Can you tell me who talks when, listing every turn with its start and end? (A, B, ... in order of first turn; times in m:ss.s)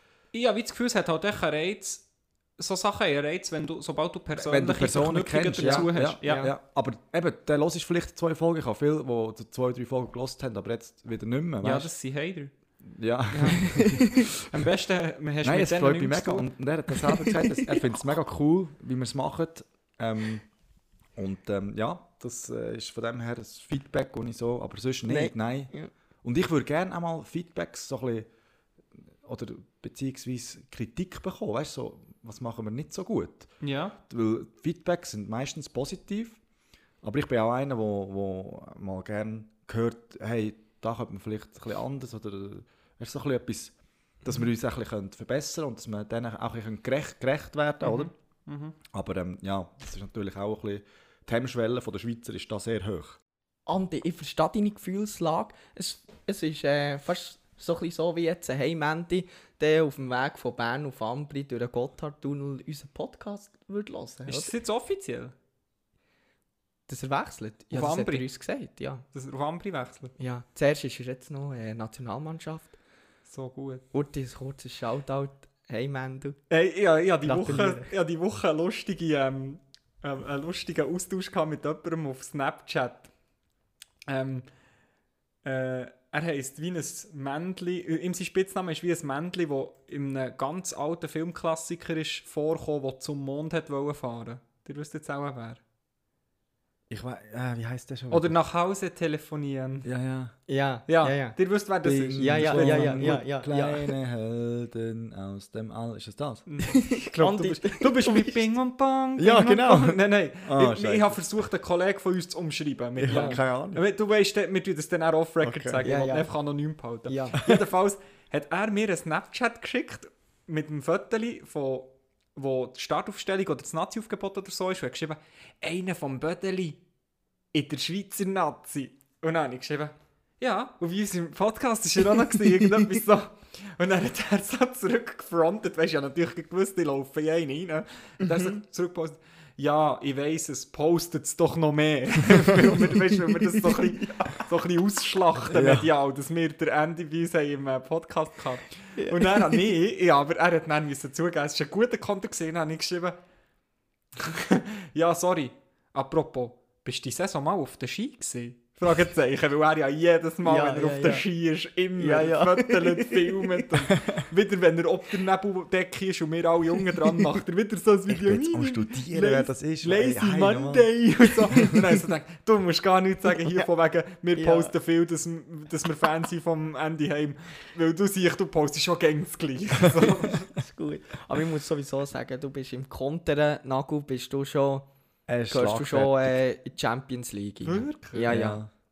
0:00.3-0:06.5 A
0:04.3-0:11.9 B
0:05.6-0:06.5 C
0:11.6-0:12.5 A
0:12.8-0:14.2 B
0:13.3-0:16.5 A
0:13.7-0:14.0 C
0:15.4-0:20.5 B
0:21.1-0:28.3 B
0:25.1-0:25.9 C
0:29.2-0:36.4 B
0:33.6-0:34.0 A
0:37.0-0:48.1 B
0:47.8-0:48.8 A
0:48.9-0:53.2 B
0:53.7-1:04.5 C
1:04.3-1:05.3 A
1:06.9-1:09.0 C
1:07.7-1:08.3 A
1:09.1-1:10.1 A
1:10.2-1:12.8 C
1:13.3-1:13.8 A
1:13.9-1:16.4 C
1:16.5-1:23.1 A
1:17.2-1:17.9 C
1:24.1-1:24.6 A
1:25.4-1:35.6 A
1:36.9-1:38.4 B
1:38.1-1:39.8 A
1:39.8-1:40.4 B
1:40.5-1:43.9 C
1:40.9-1:43.2 A
1:42.1-1:46.4 B
1:46.4-2:06.8 A
1:46.7-1:48.4 C
1:49.2-1:51.2 B
1:53.0-1:53.8 B
1:53.1-1:53.4 C
1:55.4-1:55.8 B
1:55.8-1:56.3 C
1:57.0-1:57.4 C
2:07.5-2:33.2 A
2:18.2-2:18.6 C
2:25.5-2:25.9 B
2:29.0-2:29.5 C
2:34.2-3:00.5 A
2:40.4-2:41.2 C
2:42.0-2:43.7 C
2:48.1-2:51.0 B
2:54.4-2:54.7 C
3:00.5-3:04.9 C
3:05.3-3:06.4 B
3:05.5-3:08.7 C
3:07.6-3:08.3 A
3:08.2-3:08.7 B